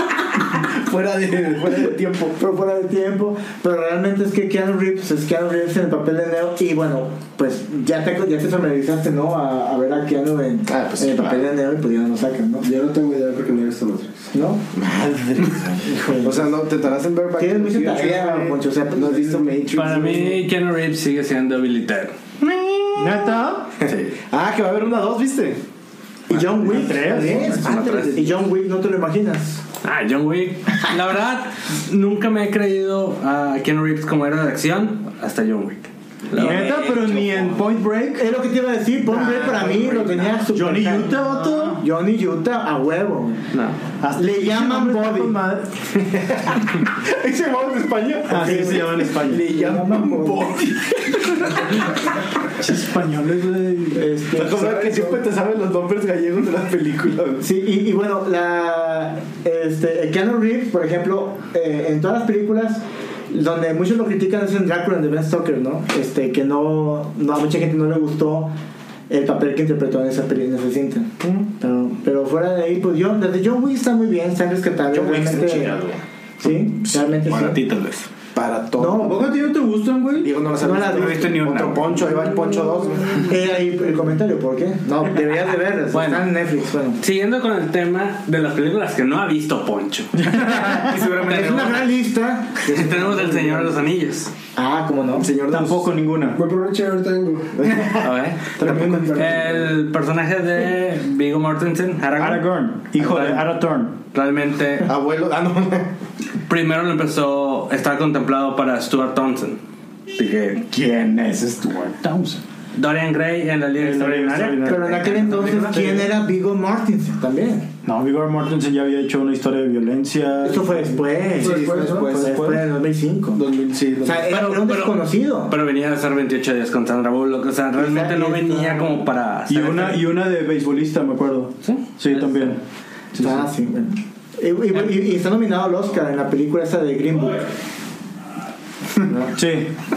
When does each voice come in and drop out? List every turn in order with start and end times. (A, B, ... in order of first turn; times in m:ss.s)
0:00.5-0:02.4 A
0:02.4-0:12.7 B
0:10.7-0:11.4 A
0:12.6-0:14.3 C
0:14.3-0:14.7 B
0:14.7-0:20.4 A
0:15.8-0:16.5 B
0:17.4-0:19.4 B
0:19.7-0:22.1 D
0:22.4-0:25.6 A
0:23.0-0:23.9 E
0:26.3-0:29.6 B
0:26.4-0:27.8 E
0:27.5-0:28.3 D
0:29.8-0:37.6 D
0:36.3-0:38.2 E
0:38.2-0:43.5 B
0:39.1-0:40.4 A
0:40.5-0:41.8 E
0:43.5-0:43.8 D
0:44.0-0:45.9 E
0:44.1-0:45.4 B
0:46.1-0:51.7 A
0:48.2-0:49.5 E
0:48.3-0:50.6 B
0:52.4-0:54.8 E
0:53.9-0:55.0 B
0:54.3-0:57.4 A
0:57.4-1:08.5 B
1:09.1-1:15.8 B
1:14.9-1:16.0 A
1:16.4-1:17.6 B
1:17.2-1:18.1 F
1:18.3-1:19.3 A
1:18.8-1:19.3 B
1:19.0-1:20.3 E
1:20.2-1:23.3 A
1:20.6-1:21.4 B
1:20.8-1:22.0 F
1:23.2-1:27.0 B
1:25.9-1:26.2 D
1:27.0-1:30.4 D
1:30.3-1:31.9 F
1:31.0-1:32.8 B
1:31.3-1:31.7 D
1:32.6-1:34.3 D
1:32.7-1:33.7 A
1:34.6-1:35.3 B
1:35.2-1:35.9 A
1:35.5-1:36.4 E
1:36.3-1:37.6 C
1:37.6-1:39.5 A
1:38.0-1:38.6 D
1:38.6-1:39.1 B
1:38.6-1:39.7 C
1:39.1-1:43.5 D
1:42.2-1:44.0 E
1:44.1-1:44.9 D
1:44.8-1:45.9 A
1:46.5-1:49.6 D
1:50.1-1:50.6 D
1:50.6-1:52.4 E
1:52.7-1:56.1 D
1:53.8-1:54.9 E
1:54.6-1:57.7 B
1:57.8-2:01.0 E
2:00.4-2:03.4 B
2:01.4-2:02.5 A
2:01.4-2:02.2 C
2:02.1-2:02.6 E
2:03.3-2:04.3 A
2:04.0-2:05.5 B
2:04.3-2:10.0 D
2:07.7-2:09.0 B
2:09.5-2:12.6 E
2:11.6-2:12.4 D
2:13.1-2:13.5 E
2:13.2-2:17.5 B
2:19.0-2:19.4 B
2:19.4-2:19.7 E